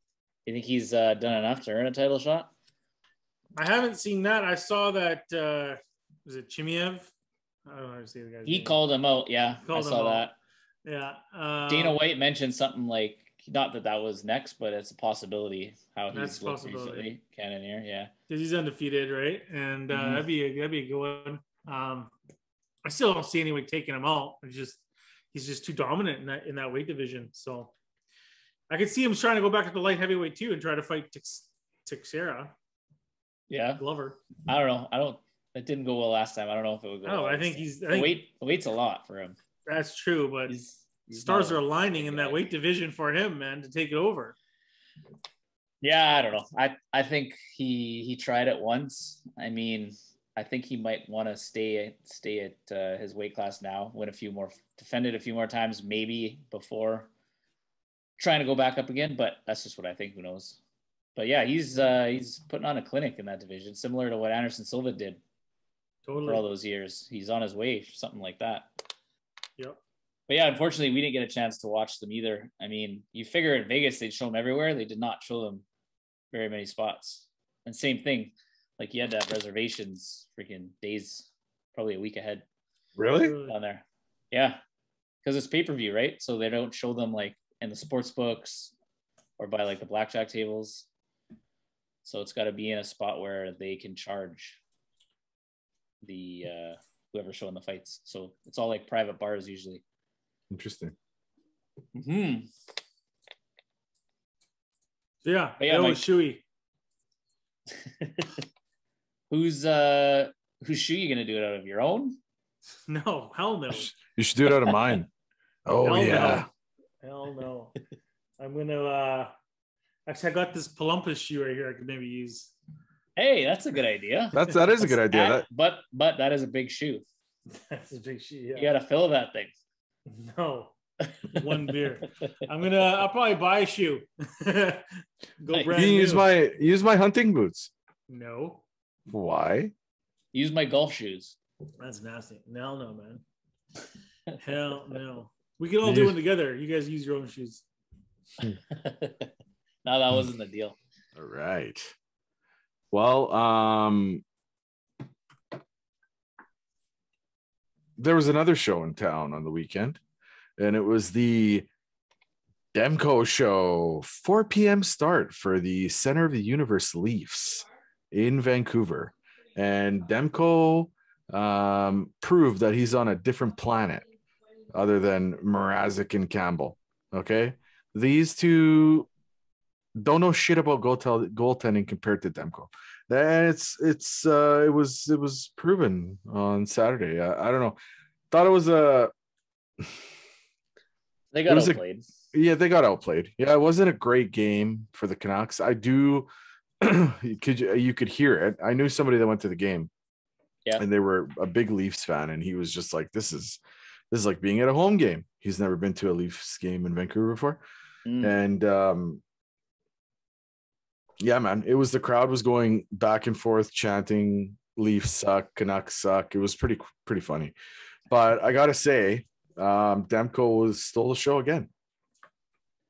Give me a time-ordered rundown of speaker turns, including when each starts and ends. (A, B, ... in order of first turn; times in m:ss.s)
0:00.4-0:02.5 A
0:03.6-0:07.1 B
0:07.6-0:08.8 B
0:08.4-0:10.3 A
0:09.6-0:10.3 B
0:10.8-0:12.0 B
0:11.7-0:18.1 A
0:16.1-0:17.1 B
0:18.3-0:22.1 B
0:19.9-0:20.2 A
0:22.8-0:27.7 B
0:28.7-0:32.5 B
0:33.5-0:33.8 A
0:33.8-0:34.2 B
0:34.4-0:39.4 A
0:37.0-0:38.2 B
0:39.6-0:40.6 B
0:40.5-0:42.4 A
0:41.1-0:44.3 B
0:45.8-0:57.1 A
0:58.2-1:00.6 A
1:01.2-1:05.2 A
1:06.0-1:06.4 B
1:06.3-1:08.7 A
1:10.3-1:15.6 A
1:16.3-1:22.4 A
1:23.0-1:23.4 C
1:23.2-1:23.5 B
1:23.4-1:24.6 A
1:25.2-1:28.7 A
1:29.4-1:30.9 A
1:32.0-1:34.6 A
1:36.0-1:39.8 A
1:40.5-1:40.9 C
1:41.9-1:42.5 A
1:45.2-1:46.4 B
1:45.6-1:46.0 A
1:47.9-1:48.3 A
1:49.3-1:52.2 A
1:52.9-1:53.9 B
1:53.8-1:55.1 C
1:55.6-1:56.5 C
1:55.8-1:56.5 B
1:57.0-1:57.7 B
1:58.4-1:59.3 B
2:00.1-2:02.5 B
2:03.2-2:07.0 A
2:04.3-2:05.4 C
2:07.7-2:08.7 B
2:08.6-2:09.5 A
2:10.1-2:10.7 B
2:11.0-2:11.5 A
2:11.3-2:14.9 B
2:15.4-2:16.3 B
2:15.5-2:15.9 A
2:15.7-2:17.7 C
2:18.1-2:18.6 B
2:19.1-2:19.7 C
2:20.3-2:21.3 A
2:21.8-2:23.2 B
2:24.4-2:27.6 B
2:25.8-2:26.2 C
2:28.7-2:29.3 A
2:29.8-2:30.8 A
2:31.2-2:31.9 C
2:32.9-2:34.2 C
2:38.0-2:40.0 C
2:40.6-2:41.7 C
2:42.7-2:54.0 C
2:54.7-2:59.1 C
3:00.0-3:07.8 C
3:08.3-3:09.1 C
3:11.3-3:12.0 A
3:11.5-3:11.8 C
3:12.3-3:16.3 C
3:16.8-3:19.9 C
3:20.8-3:23.6 C
3:24.1-3:27.6 C
3:28.0-3:28.4 A
3:28.2-3:29.2 C
3:31.2-3:37.6 C
3:38.1-3:41.7 C